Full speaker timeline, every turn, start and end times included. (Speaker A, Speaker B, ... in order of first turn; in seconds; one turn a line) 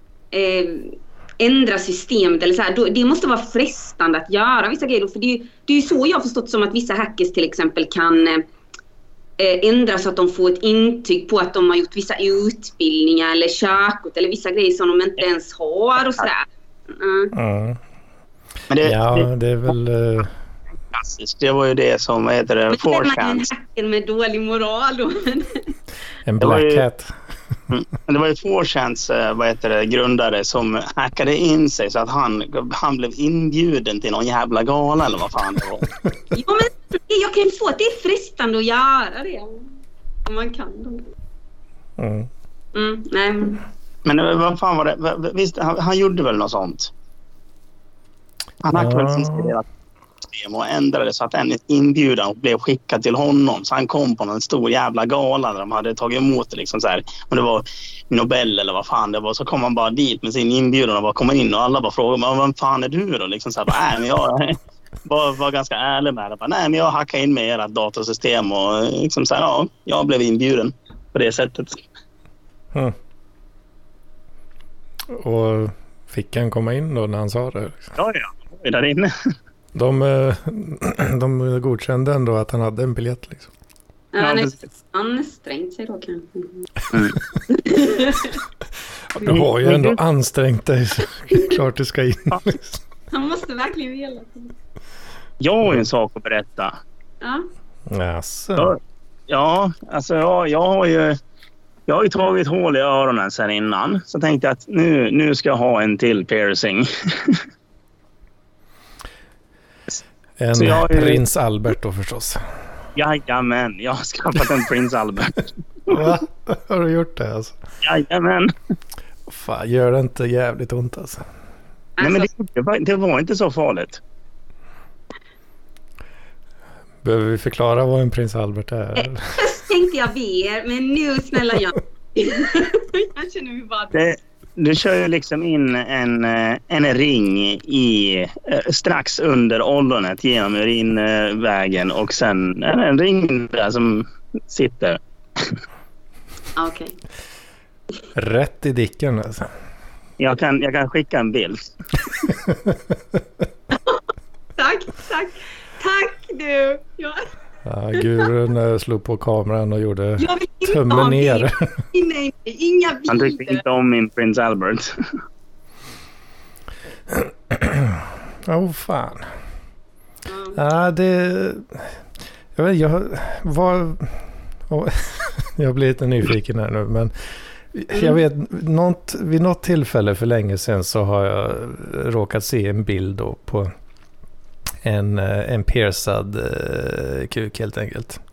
Speaker A: 0.3-8.4
Speaker A: 9.4-17.3
Speaker B: 17.3-17.8
Speaker C: 18.7-19.3
Speaker B: 18.8-20.3
Speaker C: 20.9-23.5
Speaker A: 22.7-25.7
Speaker B: 26.2-27.2
Speaker C: 26.4-26.8
Speaker C: 27.7-35.9
Speaker A: 36.3-39.7
Speaker A: 40.2-41.0
Speaker B: 42.0-42.3
Speaker A: 42.7-43.6
Speaker C: 44.0-46.9
Speaker C: 48.6-49.6
Speaker B: 48.7-49.5
Speaker C: 50.3-71.8
Speaker B: 75.1-77.9
Speaker C: 78.0-79.1
Speaker B: 79.7-83.5
Speaker A: 84.1-86.7
Speaker C: 84.2-84.5
Speaker A: 87.5-88.4
Speaker B: 89.1-92.8
Speaker C: 89.2-90.0
Speaker A: 93.1-94.5
Speaker C: 95.4-96.8
Speaker B: 97.9-98.8
Speaker C: 98.6-101.2
Speaker C: 101.9-107.4
Speaker B: 110.4-112.4
Speaker C: 110.5-111.2
Speaker C: 113.0-116.1
Speaker B: 115.9-117.6
Speaker C: 117.8-118.5
Speaker B: 119.3-121.2
Speaker A: 122.0-122.3
Speaker C: 122.0-124.0
Speaker B: 127.0-129.4
Speaker A: 129.0-134.0
Speaker C: 133.9-145.6
Speaker A: 146.6-146.9
Speaker B: 148.1-149.5
Speaker C: 150.2-151.6
Speaker B: 152.4-153.2
Speaker A: 153.7-154.0
Speaker A: 154.6-157.3
Speaker B: 157.6-161.8
Speaker A: 160.2-163.6
Speaker C: 163.1-165.1
Speaker B: 167.1-169.3
Speaker A: 170.3-170.6
Speaker B: 170.5-172.0
Speaker B: 172.5-183.7
Speaker A: 177.9-178.2
Speaker B: 184.8-188.2